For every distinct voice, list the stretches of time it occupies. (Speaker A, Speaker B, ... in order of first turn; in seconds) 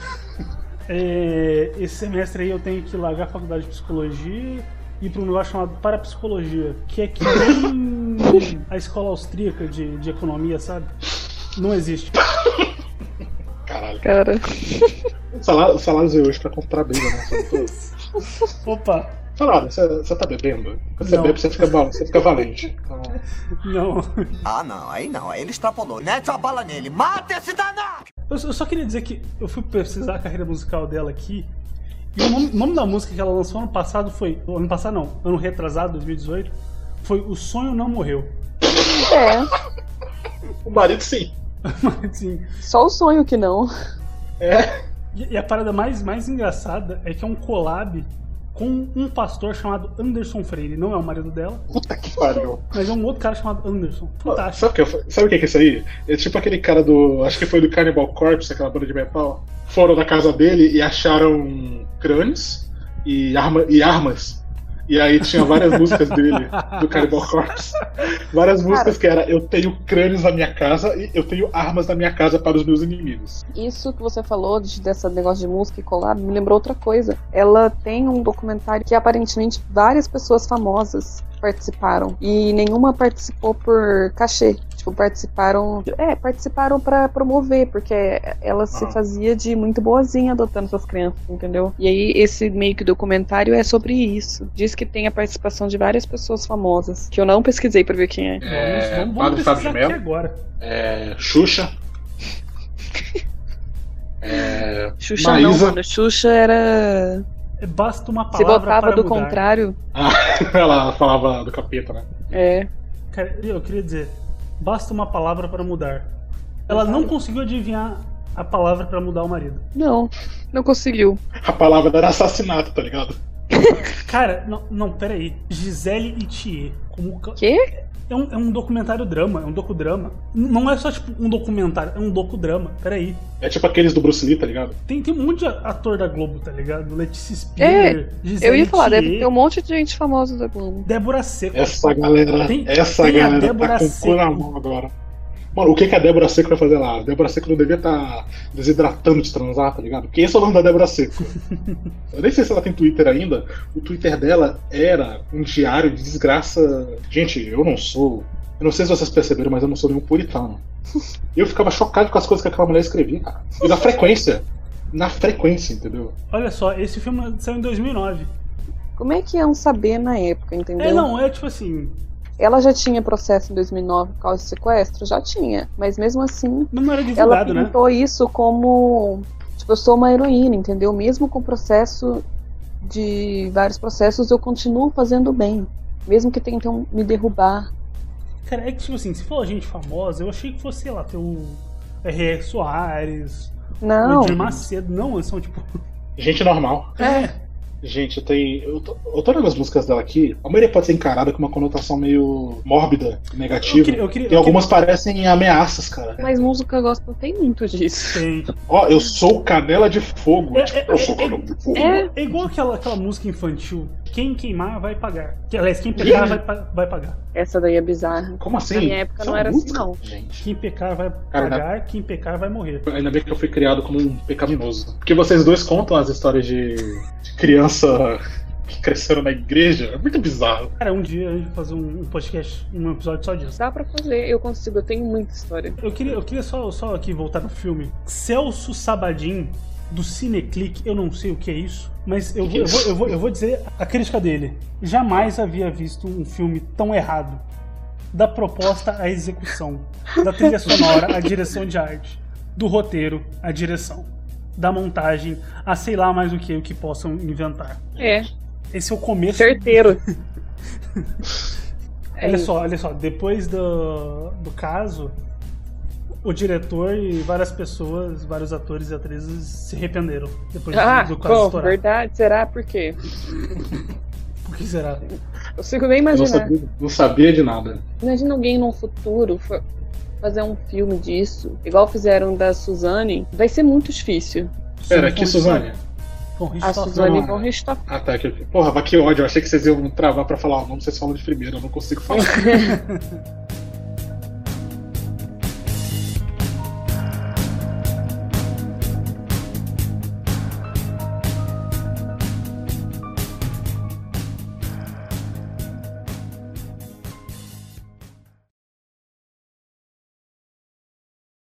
Speaker A: 0.9-10.9, 11.5-12.2, 17.4-17.9, 18.6-19.1, 21.0-21.7, 23.6-24.4, 28.3-31.5, 32.1-38.3, 41.7-42.4, 45.1-51.7, 52.7-54.7, 65.4-67.3, 98.5-100.4, 107.6-109.4, 113.1-116.1, 116.7-119.7, 124.0-127.4, 128.1-133.2, 134.9-139.3, 140.8-141.8, 142.5-144.5, 151.5-151.8, 166.3-168.3, 170.8-171.9, 176.7-177.8, 188.4-195.7, 197.0-197.4, 203.6-204.7, 208.1-208.5, 210.6-217.2, 220.4-222.9, 230.8-233.6, 235.8-247.4, 248.1-257.9, 258.7-260.0, 262.2-265.1, 266.2-271.8, 274.4-275.0, 284.8-285.7, 286.4-287.2, 292.3-293.0
Speaker B: 13.7-14.0, 15.3-17.7, 19.4-23.2, 40.6-41.4, 44.4-44.7, 51.7-52.7, 54.3-73.4, 88.7-89.0, 98.4-100.0, 100.6-101.7, 104.2-105.8, 110.0-112.1, 121.4-123.2, 133.4-134.8, 141.5-144.9, 145.6-151.3, 152.1-160.6, 161.3-166.2, 194.4-194.6, 196.2-197.0, 197.8-206.5, 208.7-212.0, 216.0-216.4, 218.4-220.5, 221.3-221.7, 222.9-230.7, 242.5-243.1, 258.0-258.2, 276.1-277.8, 284.9-285.8, 286.9-292.4
Speaker C: 14.0-15.0, 38.9-39.5, 42.6-43.7, 68.7-69.0, 73.5-98.4, 105.0-107.2, 108.3-109.8, 112.3-112.7, 116.7-117.1, 119.8-121.2, 127.4-127.7, 137.6-140.9, 169.0-171.1, 172.4-182.2, 182.8-187.7, 193.8-194.4, 197.0-197.3, 206.2-208.2, 211.8-212.1, 217.3-220.0, 233.6-235.8, 250.7-251.2, 258.0-258.3, 259.4-260.0, 262.2-262.5, 270.7-273.0, 275.6-276.5, 278.0-279.6, 280.2-284.5, 286.6-287.8, 292.2-292.7
Speaker D: 24.4-28.0